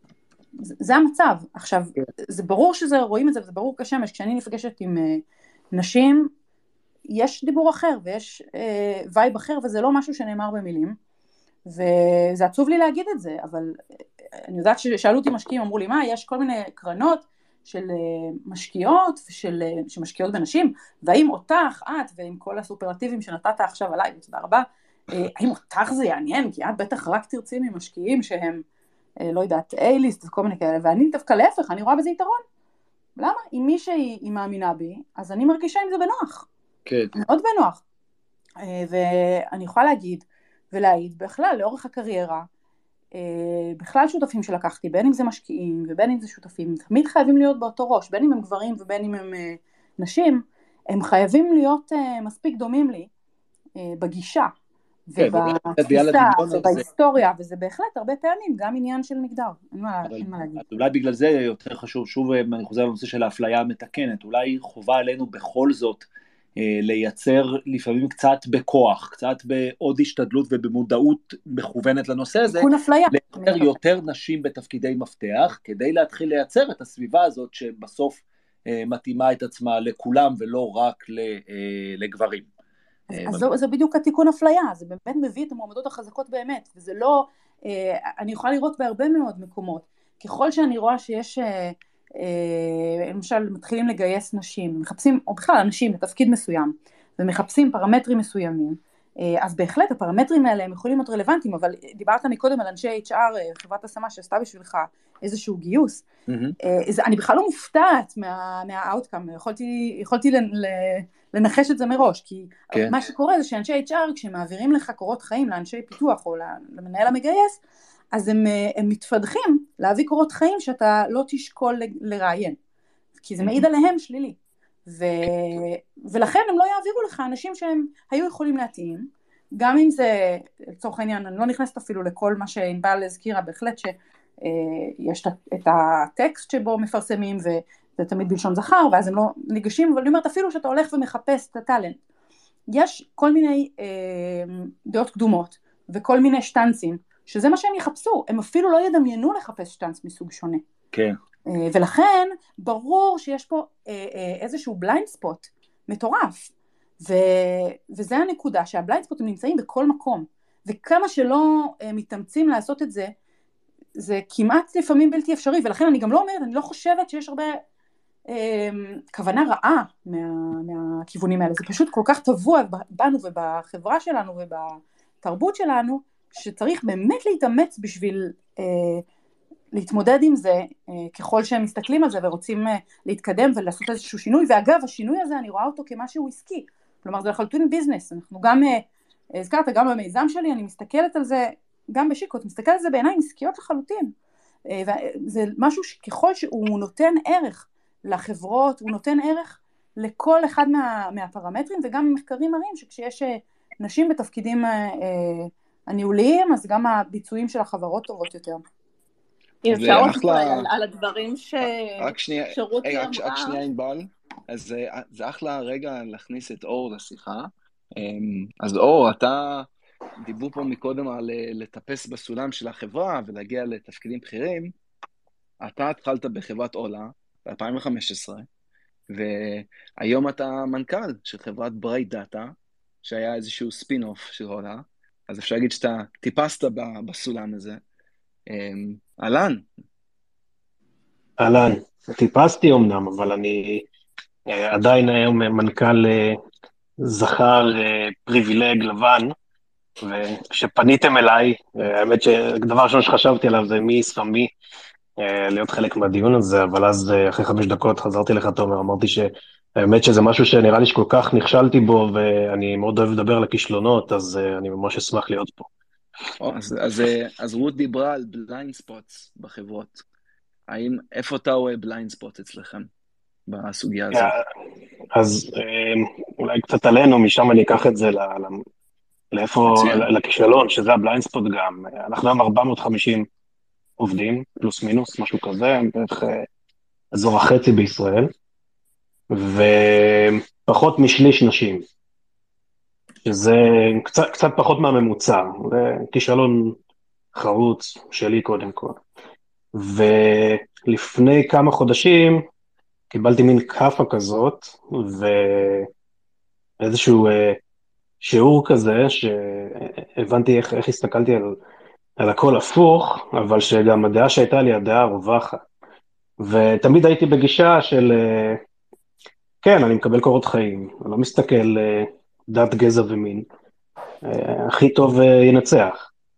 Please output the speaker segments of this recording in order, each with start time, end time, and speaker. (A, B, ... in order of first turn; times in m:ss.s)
0:00.8-0:05.2 A
0:05.7-0:06.3 A
0:07.1-0:11.0 A
0:11.7-0:13.8 A
0:14.4-0:28.6 A
0:29.2-0:32.4 A
0:33.2-0:36.5 A
0:36.9-0:37.1 B
0:37.1-0:37.8 A
0:38.6-0:42.5 A
0:43.2-0:53.1 A
0:53.8-0:54.5 A
0:55.1-1:00.6 A
0:55.2-0:56.8 B
1:00.0-1:06.0 B
1:06.6-1:22.5 B
1:12.5-1:13.7 A
1:23.1-1:46.0 A
1:23.2-1:23.5 B
1:46.3-1:46.6 B
1:46.6-1:57.6 A
1:52.7-1:53.0 B
1:58.1-2:02.6 A
2:03.2-2:22.0 A
2:22.7-2:30.6 A
2:31.5-2:43.1 A
2:44.0-2:47.6 A
2:48.3-2:59.0 A
2:59.7-3:14.1 A
3:14.7-3:28.6 A
3:29.6-3:33.6 C
3:29.7-3:30.7 D
3:32.0-3:39.7 D
3:40.2-3:44.7 D
3:45.6-3:48.5 D
3:49.1-3:57.8 D
3:58.5-3:59.7 D
4:01.4-4:03.9 E
4:04.5-4:06.4 E
4:07.0-4:09.3 E
4:10.0-4:14.5 E
4:15.2-4:25.7 E
4:26.4-4:30.0 D
4:30.7-4:32.9 D
4:33.5-4:34.3 D
4:34.1-4:34.4 E
4:35.1-4:38.6 E
4:39.3-4:43.3 E
4:39.7-4:40.1 D
4:44.0-4:46.5 E
4:47.1-4:48.3 E
4:49.3-4:51.8 E
4:53.3-4:56.8 E
4:57.4-4:59.0 E
4:59.8-5:02.5 E
5:03.1-5:05.9 E
5:06.8-5:07.6 E
5:08.2-5:11.6 E
5:12.2-5:15.6 E
5:16.4-5:18.6 E
5:19.6-5:23.5 E
5:24.2-5:26.1 E